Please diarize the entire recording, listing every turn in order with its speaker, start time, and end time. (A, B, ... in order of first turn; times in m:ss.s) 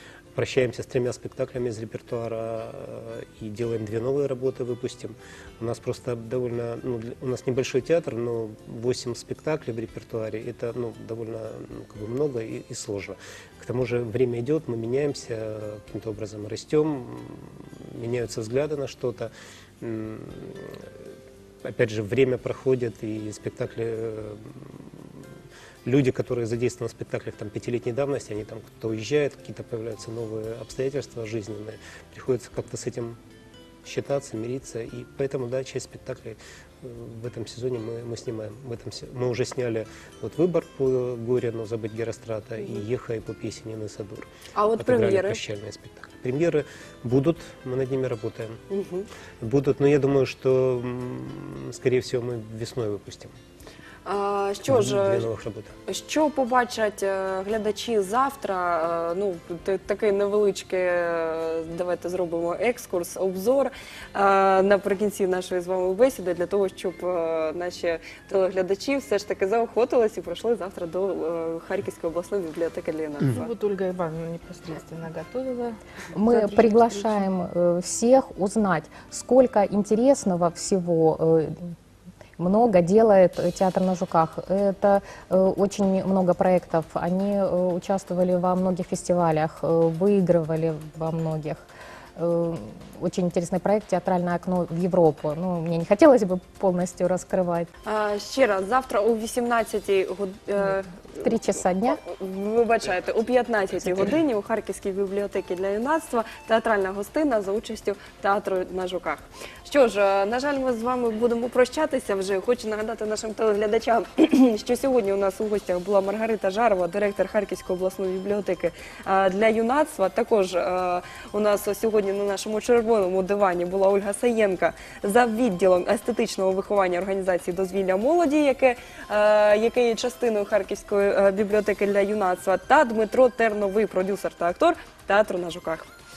0:00.4-0:20.9 A
0:21.6-0:24.9 A
0:25.8-0:33.2 A
0:33.8-0:48.6 A
0:44.6-0:45.4 B
0:48.7-0:49.1 B
0:49.4-0:53.3 A
0:54.0-0:55.3 B
0:54.7-0:55.7 A
0:55.9-1:13.5 B
1:13.2-1:17.3 C
1:16.1-1:21.7 D
1:22.4-1:31.7 D
1:32.2-1:37.7 D
1:37.8-2:15.9 B
1:41.2-1:42.0 D